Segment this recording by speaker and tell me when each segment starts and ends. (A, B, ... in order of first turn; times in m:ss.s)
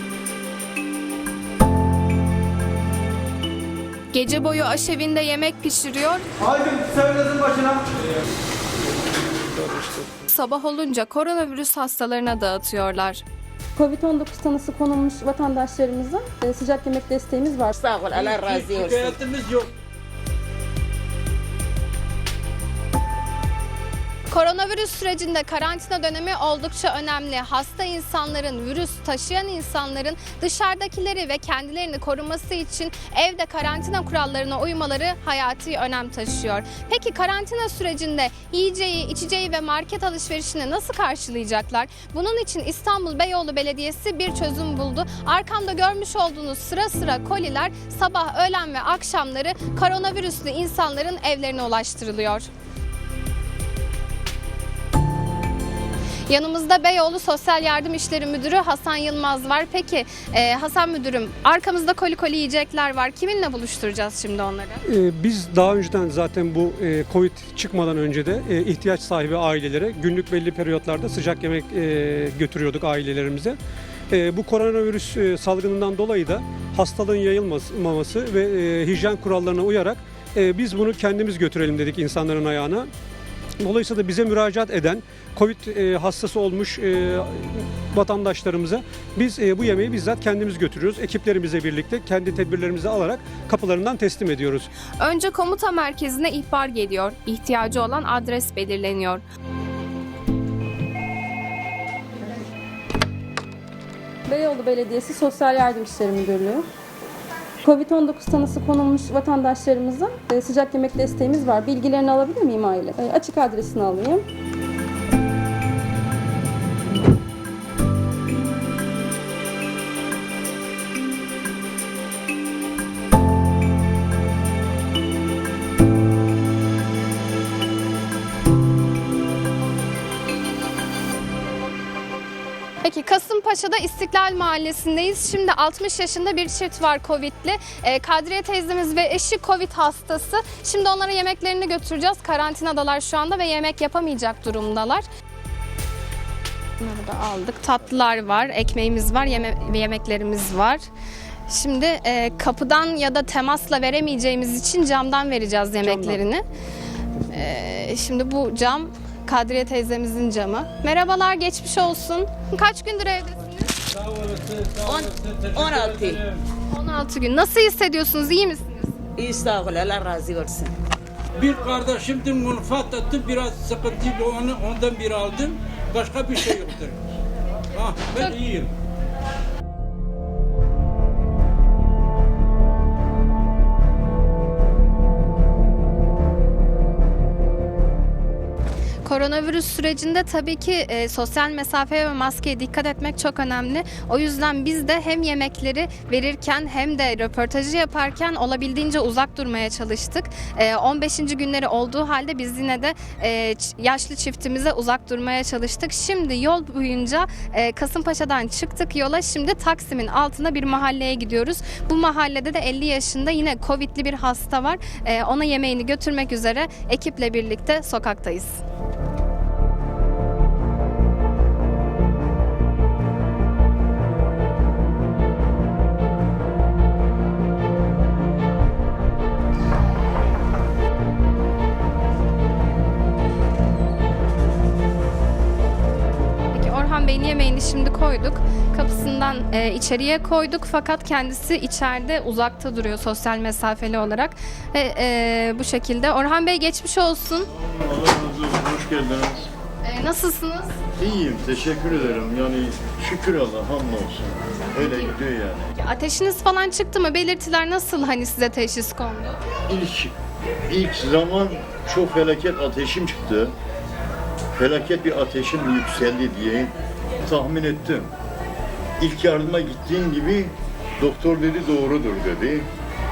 0:04.1-0:06.3 A
0:06.5-0:07.7 B
0:10.2-0:13.2 A
0:13.8-0:17.7 C
0:17.7-0:19.2 D
0:18.1-0:19.7 E
0:24.3-0:52.5 A
0:56.3-1:04.8 A
1:04.9-1:13.6 B
1:14.1-1:22.9 B
1:23.6-1:34.7 B
1:35.0-1:39.2 A
1:44.3-1:46.7 C
1:47.6-1:54.3 C
2:12.8-2:25.0 A
2:26.8-2:30.8 A
2:31.5-2:36.4 A
2:35.8-2:36.2 B
2:37.3-2:43.7 A
2:43.9-2:46.4 E
2:44.8-2:46.2 D
2:46.7-2:49.0 A
2:49.2-2:50.7 D
2:51.4-2:57.0 E
2:57.7-2:58.7 E
3:09.0-3:38.6 A
3:56.5-4:07.5 A
4:07.7-4:09.5 F
4:09.8-4:10.8 A
4:11.0-4:15.7 F
4:15.8-4:19.4 A
4:19.7-4:20.2 F
4:20.7-4:23.5 F
4:24.5-4:28.1 F
4:29.0-4:32.7 F